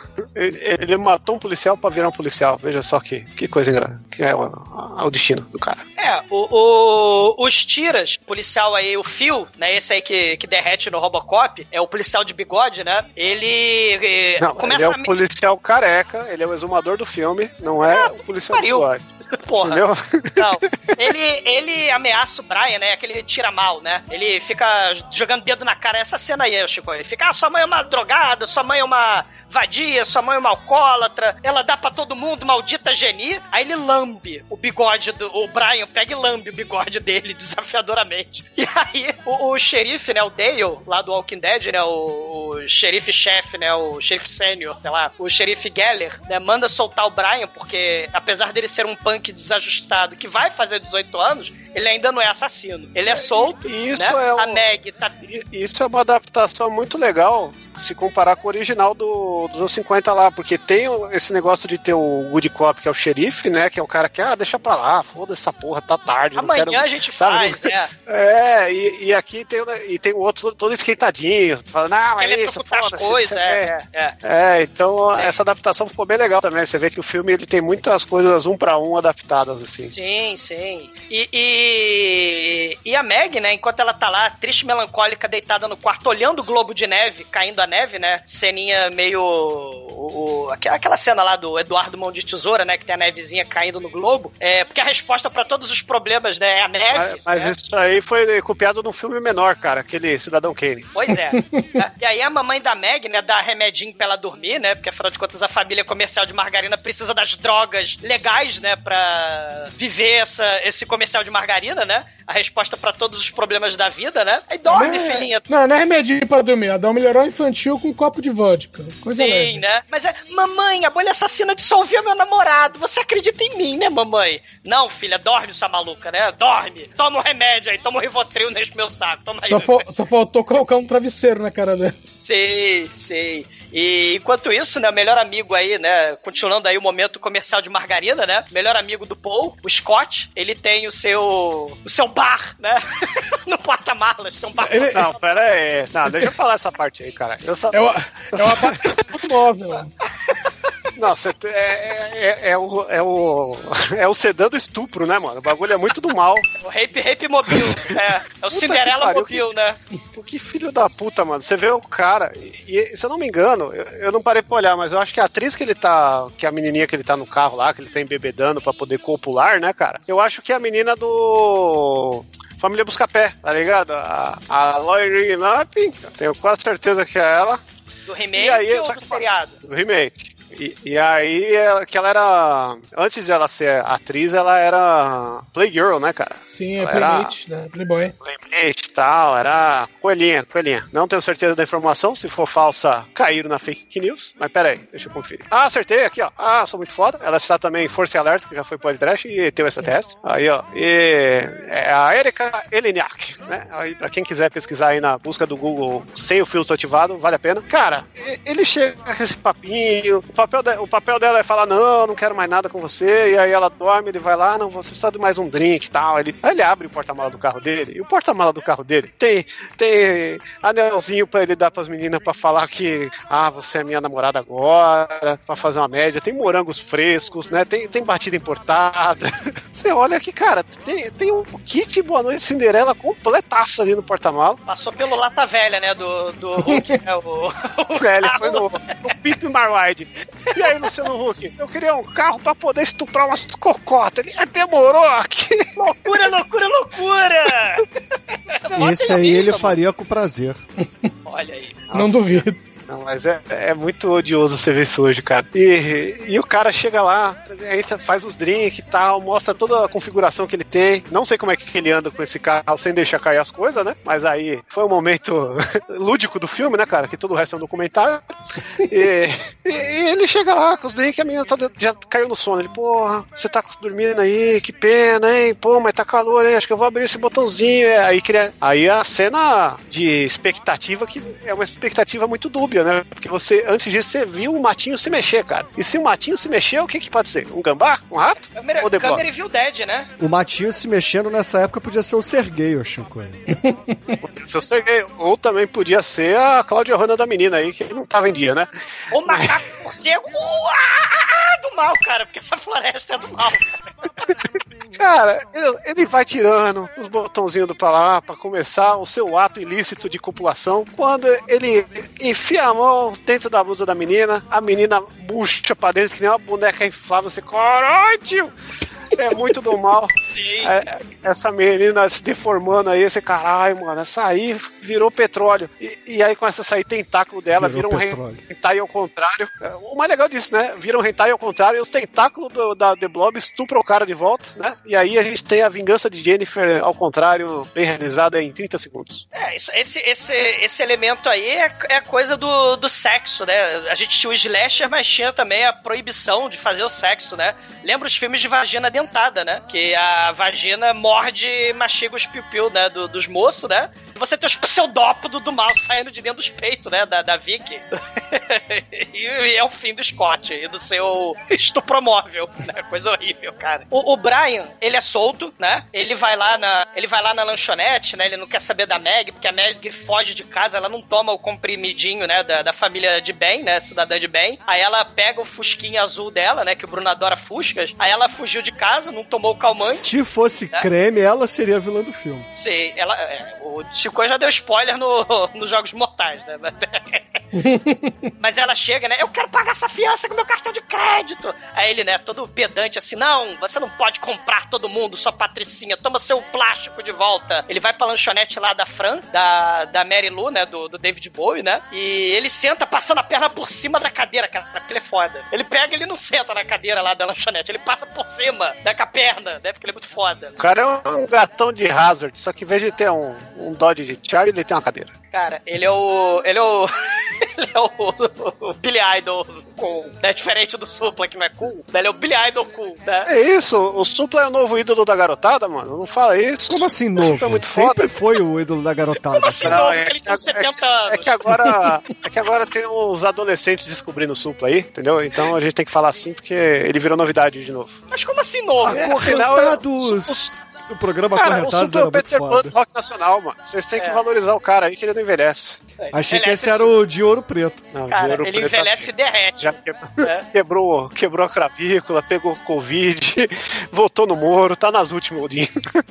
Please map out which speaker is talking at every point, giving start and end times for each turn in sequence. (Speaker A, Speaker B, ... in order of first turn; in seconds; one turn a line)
Speaker A: 0.3-5.8
Speaker B: 6.0-15.1
Speaker A: 14.4-19.0
Speaker B: 17.8-19.8
Speaker A: 19.6-20.4
Speaker B: 20.4-55.1
Speaker A: 53.6-54.6
Speaker A: 55.2-73.7
Speaker B: 66.3-67.9
Speaker B: 72.2-74.2
Speaker A: 74.2-79.9
Speaker B: 79.9-97.5
Speaker A: 96.9-100.9
Speaker B: 100.9-115.4
Speaker C: 101.3-101.7
Speaker C: 114.7-119.6
Speaker B: 119.1-129.8
Speaker C: 129.4-131.9
Speaker B: 132.2-145.1
Speaker C: 144.6-145.0
Speaker A: 144.9-149.0
Speaker C: 147.7-149.9
Speaker A: 150.9-156.5
Speaker B: 156.6-159.8
Speaker A: 158.5-159.4
Speaker A: 160.1-177.6
Speaker B: 178.1-179.6
Speaker A: 178.3-187.3
Speaker C: 186.5-188.1
Speaker A: 188.2-234.6
Speaker B: 234.7-238.7
Speaker A: 238.0-245.6
Speaker B: 245.7-247.9
Speaker B: 248.5-249.8
Speaker D: 248.7-250.6
Speaker B: 251.2-251.8
Speaker C: 251.9-252.6
Speaker A: 252.9-268.2
Speaker A: 268.8-289.2
Speaker B: 288.5-290.1
Speaker D: 290.2-293.4
Speaker C: 293.5-294.1
Speaker A: 294.2-298.7
Speaker B: 299.1-303.7
Speaker A: 299.2-299.6
Speaker A: 305.0-318.5
Speaker A: 319.1-339.2
Speaker B: 320.3-320.7
Speaker D: 327.5-328.4
Speaker B: 339.3-380.1
Speaker D: 379.8-382.4
Speaker B: 382.5-387.4
Speaker C: 387.5-388.1
Speaker B: 388.4-410.6
Speaker A: 410.6-415.1
Speaker B: 415.3-423.3
Speaker A: 423.2-428.1
Speaker D: 426.7-429.8
Speaker B: 429.3-431.3
Speaker A: 429.6-438.0
Speaker B: 438.1-439.8
Speaker D: 438.8-442.8
Speaker A: 438.8-440.4
Speaker A: 441.3-445.8
Speaker B: 446.0-446.9
Speaker D: 446.1-447.9
Speaker A: 447.9-455.7
Speaker B: 448.1-450.4